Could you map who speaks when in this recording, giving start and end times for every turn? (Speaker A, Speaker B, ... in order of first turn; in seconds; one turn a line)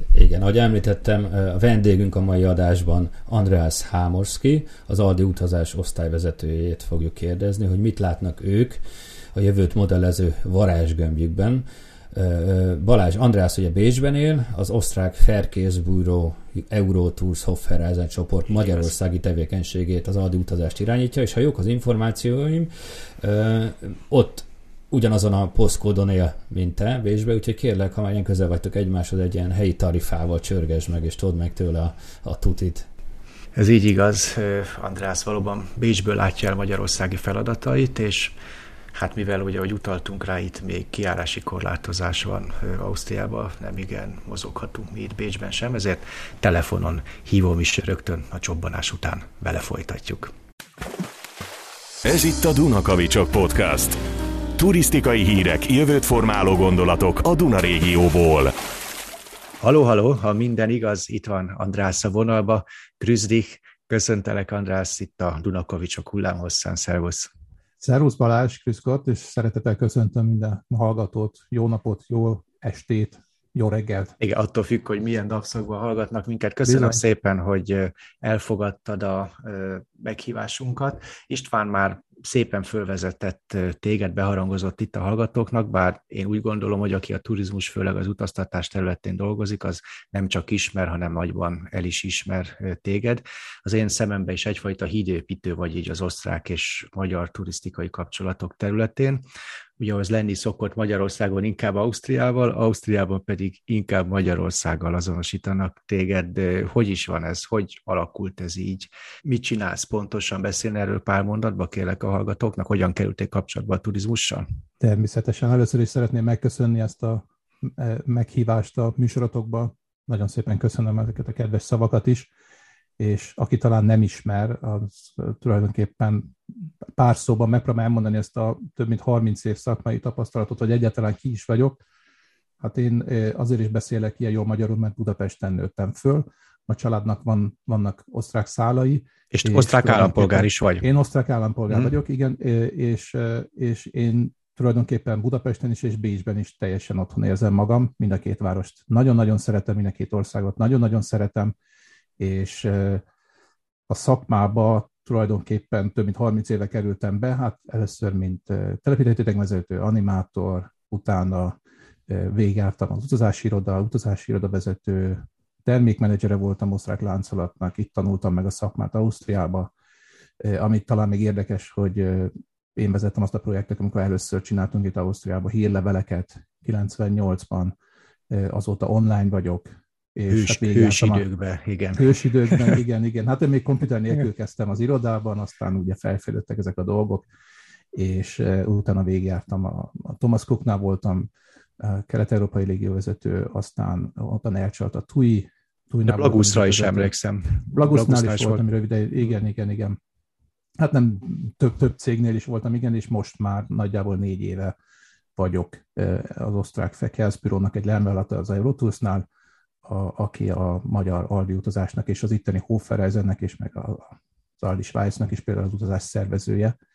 Speaker A: 0.1-8.8
Speaker A: 9.3-32.9
Speaker B: 18.5-18.9
Speaker B: 33.5-38.3
Speaker B: 38.9-50.3
Speaker C: 52.0-54.0
Speaker C: 54.6-58.5
Speaker B: 59.6-67.3
Speaker D: 67.8-74.1
Speaker B: 74.2-99.2
Speaker D: 76.6-77.0
Speaker B: 99.8-114.5
Speaker D: 114.8-122.3
Speaker D: 123.0-131.8
Speaker D: 132.6-151.5
Speaker B: 139.3-140.8
Speaker D: 152.2-153.0
Speaker D: 153.9-169.7
Speaker D: 170.4-177.7
Speaker D: 178.3-181.2
Speaker B: 180.3-182.7
Speaker D: 181.9-187.3
Speaker D: 187.9-191.3
Speaker D: 191.8-197.1
Speaker B: 196.1-198.6
Speaker D: 197.7-200.0
Speaker D: 200.8-204.7
Speaker D: 205.3-209.2
Speaker D: 209.8-216.7